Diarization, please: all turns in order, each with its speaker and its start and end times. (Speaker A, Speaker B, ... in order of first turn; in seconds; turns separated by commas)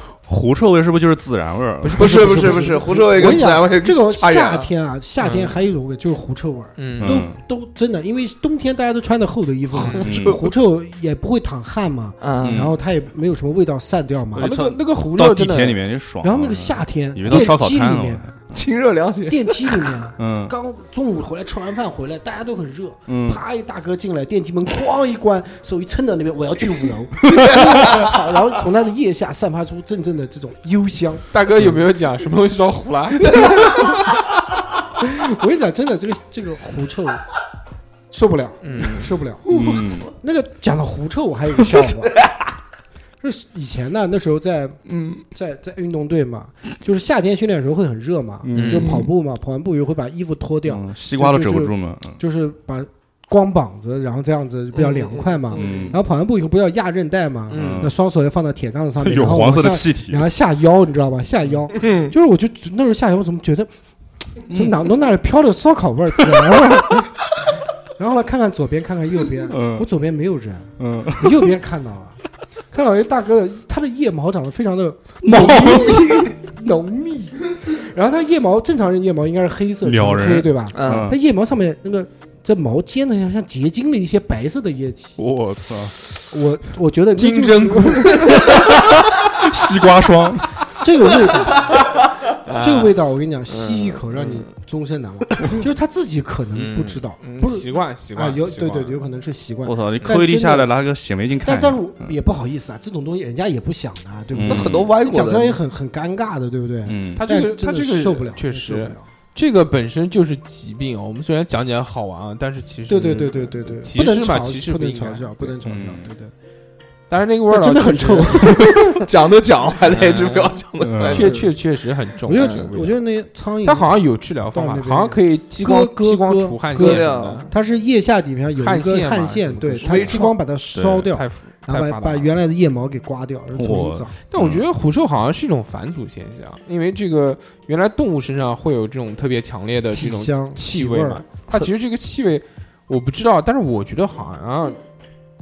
Speaker A: 0.2-2.5, Speaker B: 1.8-2.8, Speaker C: 2.0-4.7, Speaker D: 2.0-14.5, Speaker B: 5.2-5.6, Speaker B: 6.8-7.2, Speaker A: 7.0-7.4, Speaker B: 9.8-10.1, Speaker C: 9.9-10.3, Speaker A: 10.0-10.4, Speaker C: 12.2-12.7, Speaker A: 12.4-12.8, Speaker A: 14.3-18.6, Speaker B: 14.3-15.8, Speaker D: 16.2-18.2, Speaker C: 18.5-19.9, Speaker D: 19.3-31.3, Speaker A: 20.2-20.5, Speaker A: 23.1-23.4, Speaker C: 27.4-28.1, Speaker B: 31.3-33.8, Speaker D: 33.3-33.9, Speaker D: 35.0-37.2, Speaker D: 38.1-42.2, Speaker B: 38.6-39.1, Speaker A: 39.5-40.1, Speaker C: 39.5-39.8, Speaker C: 41.7-42.3, Speaker D: 43.2-63.7, Speaker C: 44.9-45.2, Speaker A: 48.4-49.0, Speaker B: 48.5-49.0, Speaker A: 50.7-52.2, Speaker C: 54.7-56.0, Speaker A: 55.5-56.0, Speaker B: 57.5-57.9, Speaker A: 57.5-57.9, Speaker A: 59.0-60.3, Speaker C: 61.8-62.1, Speaker D: 64.5-67.3, Speaker A: 64.5-64.8, Speaker D: 68.0-72.2, Speaker A: 69.5-69.9, Speaker A: 70.8-71.5, Speaker D: 72.7-85.2, Speaker A: 75.2-76.4, Speaker A: 79.8-81.2, Speaker C: 80.7-81.1, Speaker A: 85.2-86.0, Speaker D: 86.3-88.6, Speaker B: 87.2-88.6, Speaker A: 88.3-90.6, Speaker D: 90.8-91.9, Speaker B: 92.4-93.0, Speaker D: 92.5-100.7, Speaker B: 93.5-94.5, Speaker B: 96.5-99.0, Speaker A: 99.6-102.1, Speaker D: 101.4-109.0, Speaker A: 104.3-104.9, Speaker C: 104.5-105.6, Speaker A: 106.8-107.2, Speaker B: 107.2-115.5, Speaker D: 112.9-116.3, Speaker A: 115.6-116.1, Speaker B: 117.1-118.8, Speaker D: 117.5-119.1, Speaker C: 118.8-121.5, Speaker B: 119.8-123.0, Speaker A: 120.8-121.3, Speaker D: 121.2-121.5, Speaker D: 122.2-123.9, Speaker C: 122.3-122.7, Speaker B: 123.6-127.5, Speaker D: 124.5-134.1, Speaker C: 126.8-127.5, Speaker B: 128.6-130.3, Speaker C: 129.8-130.3, Speaker A: 130.7-131.1, Speaker B: 131.1-132.3, Speaker A: 133.5-134.6, Speaker B: 134.3-144.8, Speaker D: 139.9-141.4